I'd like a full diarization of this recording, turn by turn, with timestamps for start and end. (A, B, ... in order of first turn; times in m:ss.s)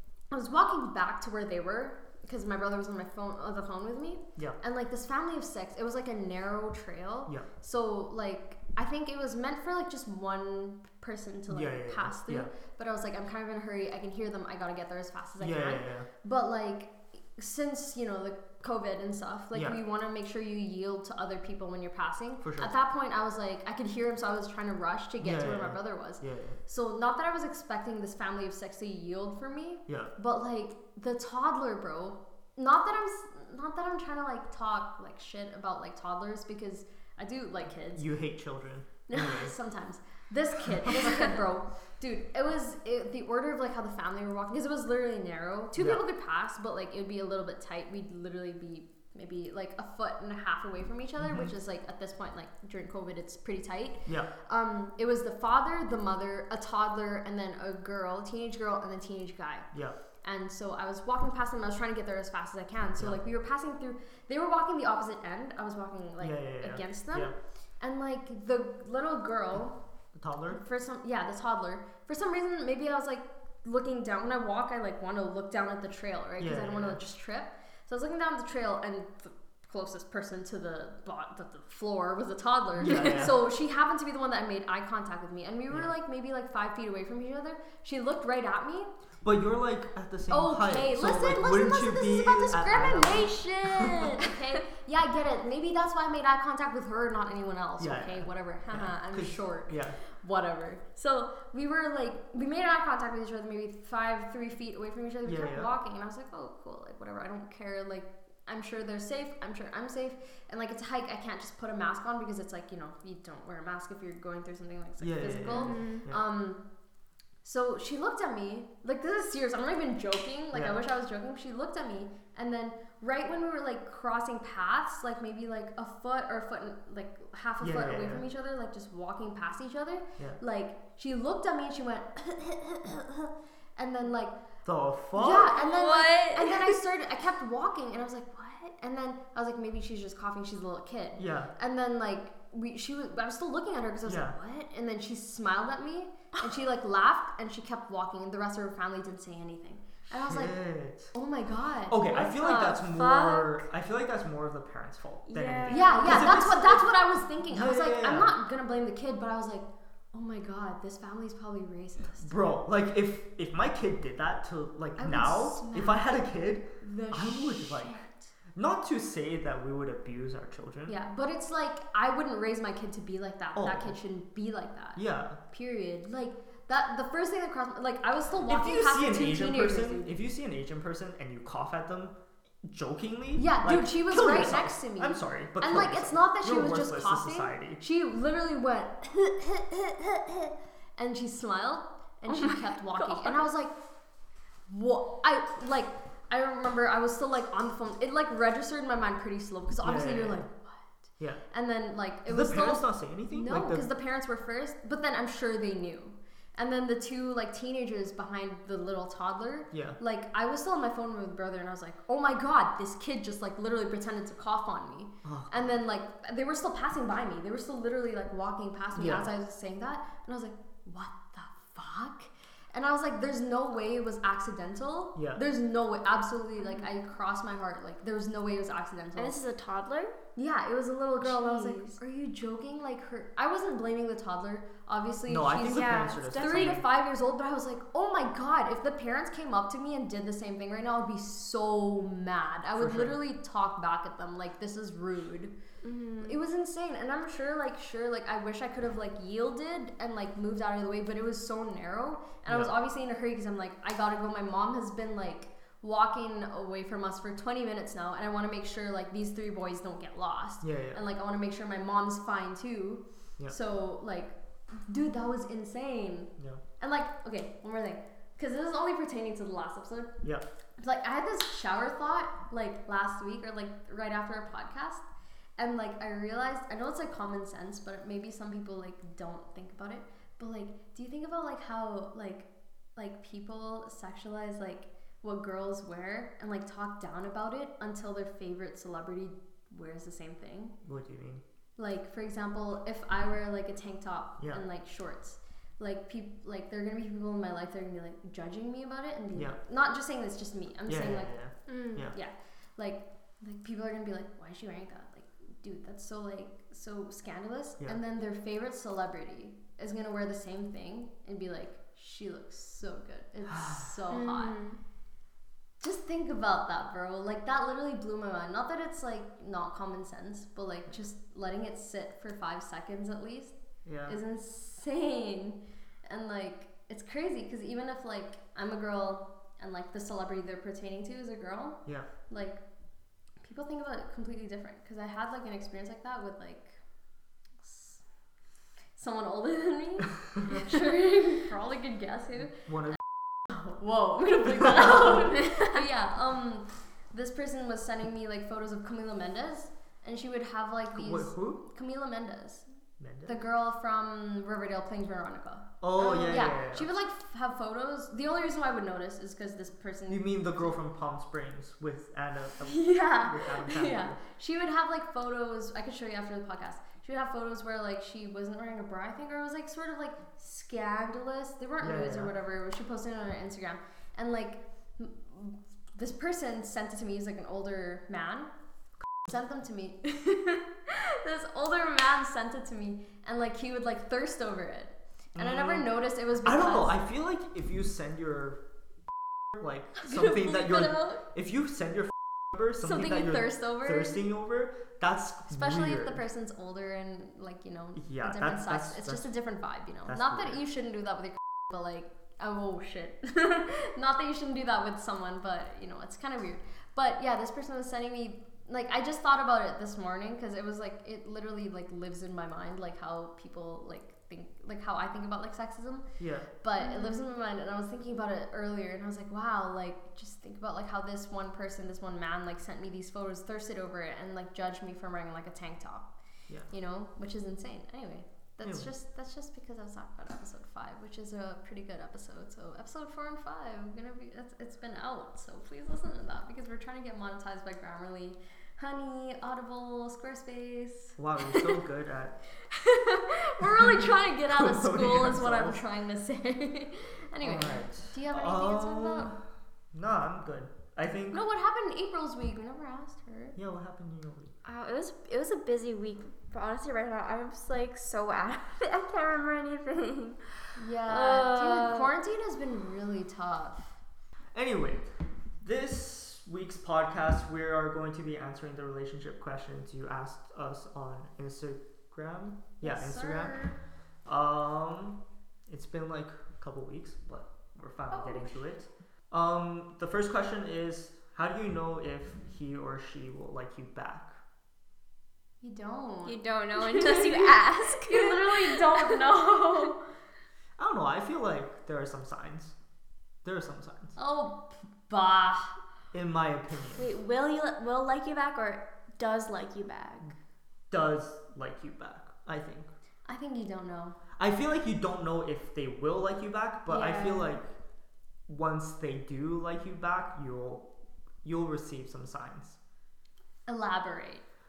0:00.3-0:38.0 A
0:11.5-0:12.5 B
0:15.4-0:16.1 B
0:22.4-0:22.7 B
0:25.2-0:26.6 B
0:29.9-0:30.1 B
0:37.9-0:39.5 B
0:39.1-1:09.8 A
0:45.8-0:46.0 B
0:51.2-0:51.5 B
1:06.2-1:07.3 B
1:10.1-1:10.6 B
1:10.5-1:28.9 A
1:16.4-1:17.0 B
1:22.8-1:23.4 B
1:29.2-1:34.0 B
1:30.3-1:56.6 A
1:37.8-1:40.0 B
1:45.2-1:45.7 B
1:55.0-1:56.2 B
1:55.5-1:56.0 C
1:57.4-2:14.4 A
2:00.5-2:00.8 B
2:07.6-2:08.2 B
2:14.6-2:15.5 B
2:15.1-2:30.6 A
2:15.5-2:16.8 C
2:21.2-2:21.5 B
2:24.0-2:24.4 B
2:30.1-2:31.1 B
2:31.1-2:32.9 A
2:31.9-2:36.9 B
2:32.9-2:33.6 C
2:35.3-2:36.3 C
2:35.7-2:42.3 A
2:37.5-2:38.3 B
2:42.2-2:51.0 B
2:45.0-2:46.1 A
2:46.8-2:48.3 A
2:50.9-3:00.1 A
2:53.5-2:54.0 B
2:55.0-2:55.4 B
2:58.5-3:07.8 B
3:03.4-3:13.8 A
3:12.3-3:13.4 C
3:14.7-3:20.9 A
3:19.8-3:20.5 B
3:21.5-3:49.4 A
3:22.3-3:23.9 B
3:29.7-3:30.0 B
3:35.2-3:35.7 B
3:38.9-3:39.3 B
3:45.2-3:45.4 B
3:49.2-3:50.1 C
3:50.4-4:05.5 A
3:51.2-3:52.0 C
3:55.3-3:56.8 B
3:55.7-3:56.8 C
4:02.8-4:03.2 B
4:05.8-4:06.4 C
4:06.2-4:30.1 A
4:12.5-4:12.7 B
4:20.6-4:21.0 B
4:30.8-4:35.0 A
4:35.6-4:50.8 A
4:50.8-4:51.4 B
4:51.8-5:14.6 A
5:00.9-5:02.2 B
5:01.7-5:02.0 C
5:14.1-5:14.8 C
5:15.8-5:23.6 A
5:23.8-5:24.2 B
5:24.1-5:32.6 A
5:33.4-5:36.8 A
5:37.6-5:38.0 A
5:38.9-5:52.7 A
5:42.7-5:43.0 B
5:50.9-5:51.6 B
5:53.0-5:53.3 B
5:53.2-6:00.7 A
5:55.8-5:56.9 B
6:00.1-6:04.2 B
6:02.6-6:18.5 A
6:11.8-6:12.3 B
6:19.2-6:26.9 A
6:25.3-6:25.9 B
6:26.4-6:28.6 B
6:29.5-6:36.2 B
6:30.0-6:31.2 A
6:32.8-6:34.2 A
6:35.5-7:21.8 A
6:37.9-6:39.3 B
6:40.0-6:40.6 B
6:56.2-6:56.5 B
6:56.8-6:57.2 C
7:08.6-7:08.9 B
7:21.2-7:22.4 B
7:22.6-7:29.3 A
7:23.6-7:23.8 B
7:24.5-7:25.8 B
7:27.4-7:29.4 B
7:29.9-7:31.4 B
7:31.3-7:33.6 A
7:33.6-7:34.5 B
7:34.6-7:40.5 C
7:40.7-7:44.0 A
7:41.1-7:42.1 C
7:44.5-7:53.7 B
7:52.8-7:53.8 A
7:54.2-8:04.4 B
7:58.1-7:58.7 A
8:05.6-8:10.0 A
8:06.2-8:09.1 C
8:10.8-8:12.8 B
8:13.4-8:14.2 B
8:14.2-8:15.8 A
8:16.1-8:17.1 B
8:17.0-8:20.4 C
8:20.9-8:22.9 B
8:23.2-8:24.2 A
8:24.4-8:27.7 B
8:26.9-8:27.6 C
8:28.5-8:30.9 B
8:31.4-8:32.8 B
8:33.7-8:34.4 A